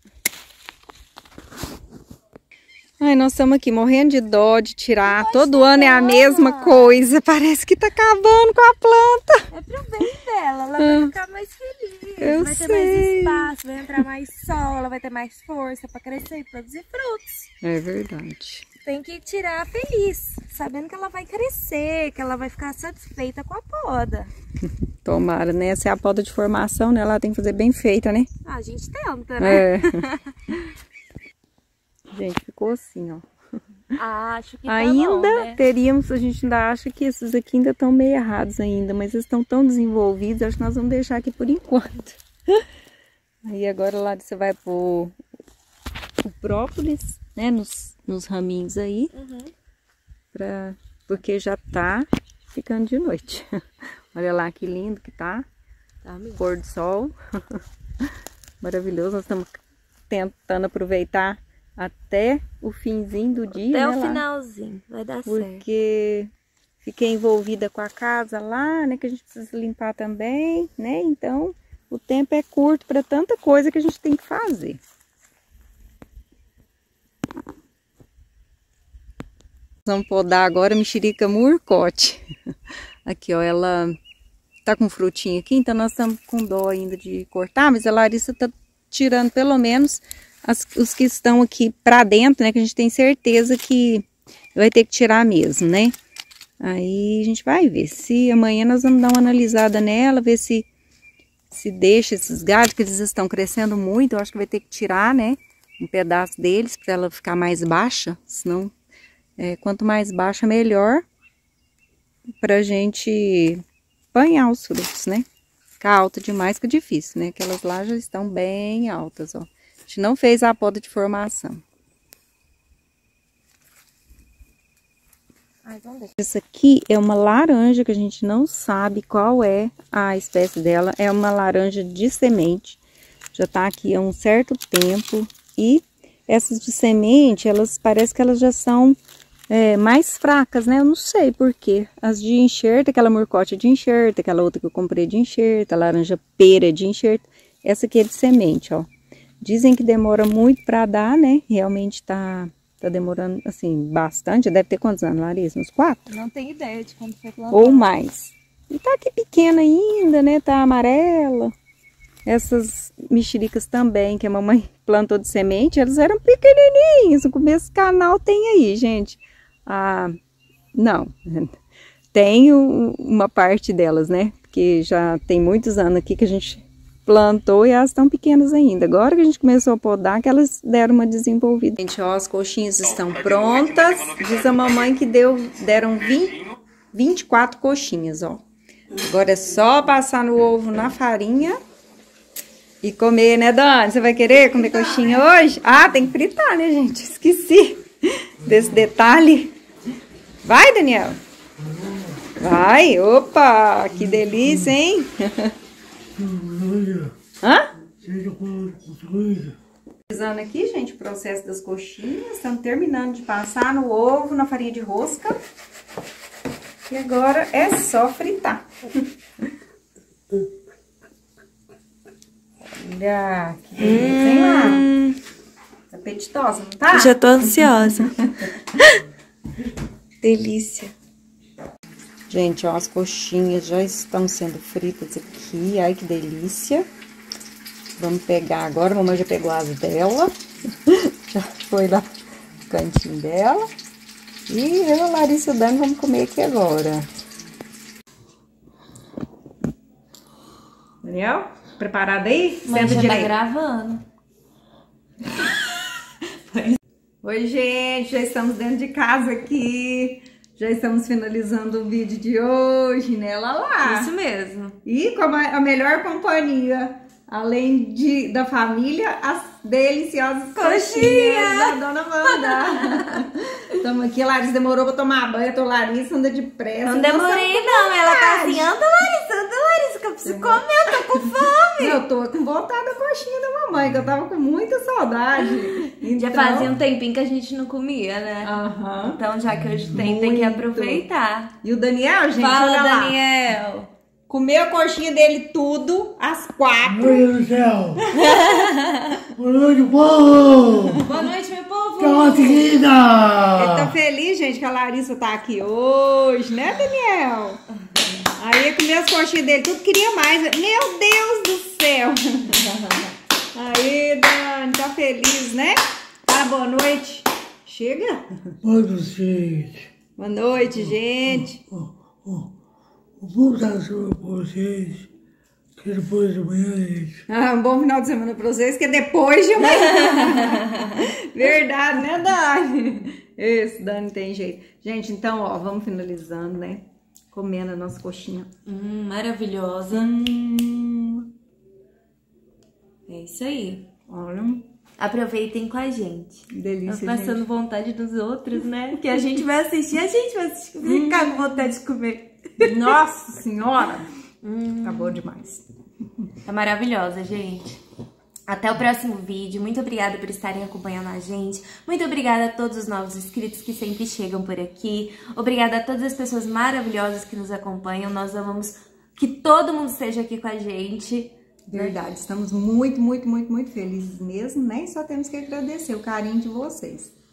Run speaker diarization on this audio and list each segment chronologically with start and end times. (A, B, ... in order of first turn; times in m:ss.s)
0:03.0-0:09.5 A
0:05.0-0:07.1 B
0:09.5-0:17.5 B
0:10.8-0:11.1 A
0:12.2-0:13.5 A
0:17.6-0:18.6 A
0:18.8-0:24.3 B
0:25.0-0:28.3 A
0:28.4-0:30.5 B
0:29.4-0:30.0 A
0:32.1-0:33.2 A
0:34.0-0:35.6 B
0:34.7-0:42.2 A
0:43.4-0:45.2 A
0:46.2-0:49.1 A
0:49.1-0:49.5 B
0:50.3-0:55.4 A
0:56.0-0:56.4 B
0:56.4-0:57.6 A
0:58.6-1:04.2 A
1:03.6-1:05.6 B
1:05.2-1:06.3 A
1:06.8-1:14.8 A
1:19.8-1:22.3 A
1:23.0-1:24.0 A
1:24.6-1:35.9 A
1:36.6-1:40.7 A
1:41.5-1:48.7 A
1:49.4-1:51.0 A
1:52.4-1:55.2 A
1:55.8-2:01.6 A
2:05.6-2:06.1 B
2:06.2-2:12.8 A
2:13.3-2:19.0 A
2:19.5-2:28.9 A
2:29.4-2:36.1 A
2:36.1-2:37.9 B
2:37.5-2:41.5 A
2:42.2-2:50.2 A
2:50.7-2:51.5 A
2:52.1-3:06.4 A
3:06.9-3:08.4 A
3:09.0-3:11.6 A
3:12.8-3:19.5 A
3:14.6-3:15.2 B
3:18.4-3:18.7 C
3:20.4-3:21.2 A
3:21.6-3:22.2 C
3:22.4-3:25.5 A
3:24.0-3:24.7 C
3:26.2-3:27.1 C
3:27.4-3:27.7 A
3:28.0-3:29.6 C
3:30.1-3:35.4 A
3:36.9-3:38.6 A
3:42.8-3:44.8 A
3:43.8-3:45.2 B
3:45.9-3:48.5 A
3:46.9-3:48.2 B
3:50.2-3:50.9 B
3:52.3-3:56.9 A
3:58.0-4:00.3 A
4:00.8-4:02.1 A
4:02.7-4:03.7 A
4:04.5-4:07.1 A
4:11.0-4:13.3 A
4:12.6-4:14.0 B
4:16.5-4:24.1 A
4:23.8-4:24.8 B
4:24.8-4:38.7 A
4:30.6-4:33.2 B
4:36.8-4:42.0 B
4:40.2-4:41.2 A
4:41.8-4:46.7 A
4:45.4-4:51.5 B
4:48.4-4:49.2 A
4:49.9-4:51.0 A
4:51.6-4:53.2 A
4:52.4-4:53.9 B
4:54.3-4:57.3 A
4:56.8-4:58.0 C
4:58.1-4:59.3 A
4:59.4-5:01.1 C
5:01.0-5:02.8 B
5:02.0-5:03.9 C
5:03.5-5:07.6 A
5:08.4-5:18.6 A
5:18.6-5:19.9 C
5:20.2-5:21.6 A
5:20.8-5:22.5 C
5:23.2-5:25.1 C
5:25.8-5:27.2 C
5:27.3-5:38.5 A
5:29.6-5:30.7 B
5:38.6-5:40.1 B
5:39.9-5:41.3 A
5:43.1-5:43.8 B
5:44.1-5:44.6 A
5:45.0-5:52.8 B
5:46.5-5:47.4 A
5:50.8-5:51.3 A
5:52.6-5:54.1 A
5:54.4-5:55.2 B
5:54.8-5:55.6 A
5:56.4-5:57.8 B
5:58.5-6:12.0 B
6:11.7-6:17.1 A